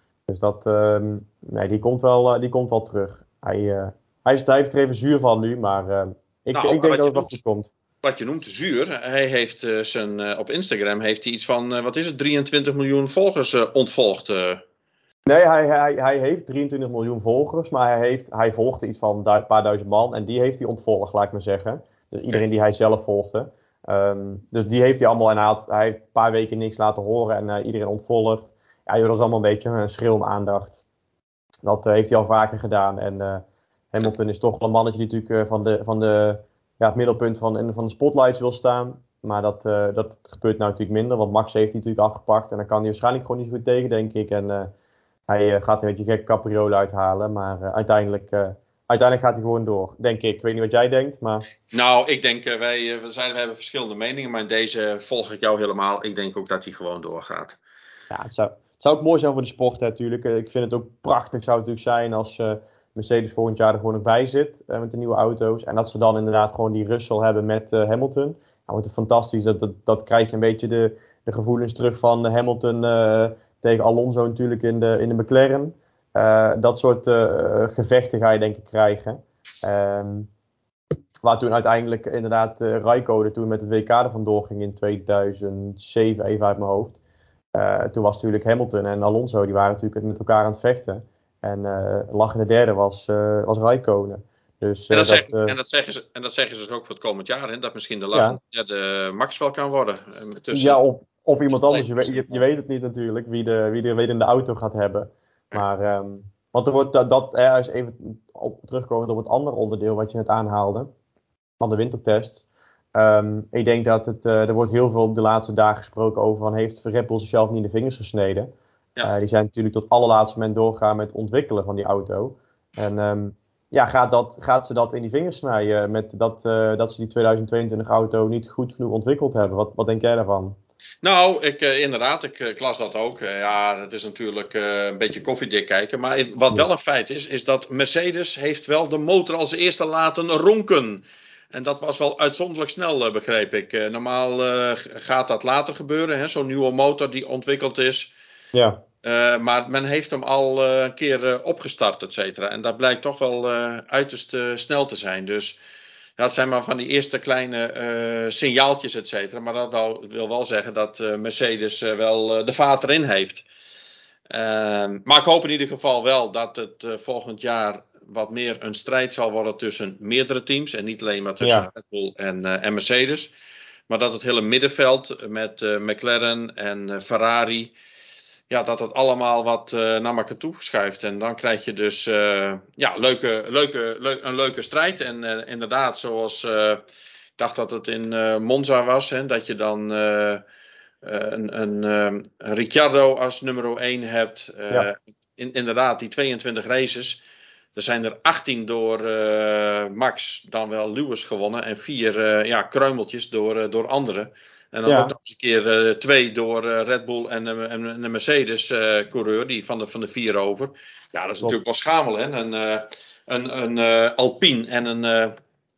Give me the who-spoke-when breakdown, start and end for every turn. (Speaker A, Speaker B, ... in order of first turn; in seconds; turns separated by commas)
Speaker A: 0.3-7.7, Speaker B: 6.5-7.4, Speaker B: 8.0-14.6, Speaker A: 15.2-30.8, Speaker A: 31.6-44.7, Speaker A: 45.3-51.5, Speaker B: 51.7-57.6, Speaker A: 58.1-80.3, Speaker A: 81.2-87.0, Speaker A: 87.5-95.5, Speaker B: 94.9-100.8, Speaker A: 98.1-98.4, Speaker A: 100.5-110.9, Speaker B: 101.5-102.4, Speaker A: 111.6-118.5, Speaker A: 119.0-130.6, Speaker B: 131.0-148.1, Speaker A: 148.5-148.8, Speaker B: 149.0-155.6, Speaker B: 156.2-163.4, Speaker B: 164.3-173.3, Speaker A: 171.4-171.7, Speaker B: 173.9-177.7, Speaker B: 178.5-186.8, Speaker B: 187.4-190.4, Speaker B: 191.0-197.2, Speaker B: 197.7-215.4, Speaker A: 204.8-205.1